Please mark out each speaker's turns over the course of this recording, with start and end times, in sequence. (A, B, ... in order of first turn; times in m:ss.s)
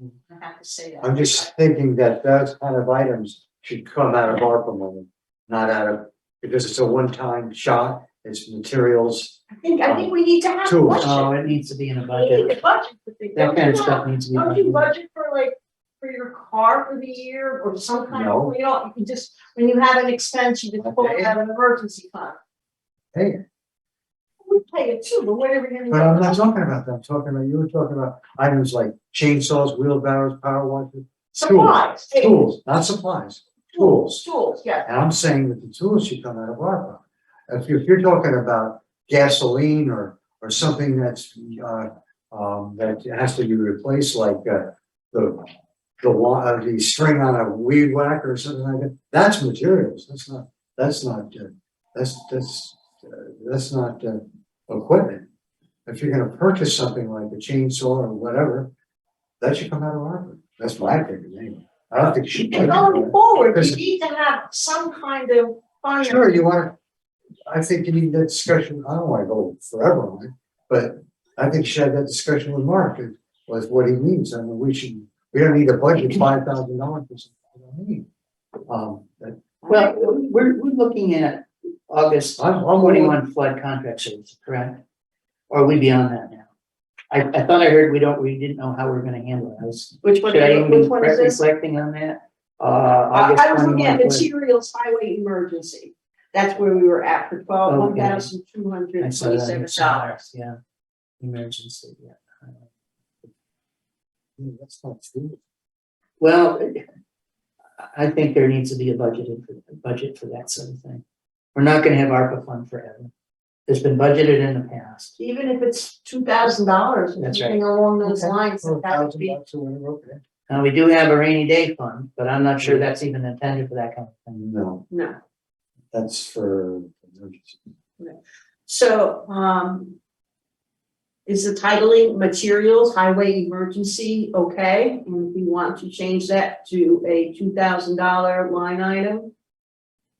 0:00.2-0:01.5 A
0:01.0-0:10.1 B
0:09.5-0:11.3 A
0:10.6-0:11.1 B
0:11.0-0:12.6 C
0:12.1-0:22.4 A
0:13.3-0:14.9 C
0:18.1-0:18.5 B
0:20.8-0:21.3 B
0:23.1-0:23.4 B
0:24.4-0:26.4 A
0:25.9-0:34.2 B
0:31.3-0:32.4 A
0:33.7-0:34.9 A
0:34.8-0:55.2 B
0:55.8-0:58.7 B
0:59.4-1:03.8 B
1:02.5-1:06.4 A
1:06.0-1:06.7 B
1:07.5-1:18.1 B
1:18.7-1:19.4 B
1:19.6-1:20.1 A
1:19.7-1:24.8 C
1:22.4-1:23.2 B
1:25.5-1:26.5 C
1:27.1-1:34.3 C
1:30.0-1:31.4 A
1:33.1-1:40.1 A
1:37.6-1:38.3 C
1:39.0-1:40.5 C
1:41.2-1:42.6 C
1:44.4-1:45.4 B
1:46.2-1:46.8 C
1:47.8-1:51.0 C
1:51.5-1:53.1 C
1:53.7-1:55.1 C
1:55.2-1:59.4 A
1:57.2-1:57.6 C
1:58.0-2:00.2 B
2:00.5-2:04.4 C
2:02.6-2:02.8 B
2:04.3-2:04.8 B
2:04.9-2:05.2 A
2:05.9-2:07.6 B
2:08.0-2:10.0 A
2:11.2-2:19.3 A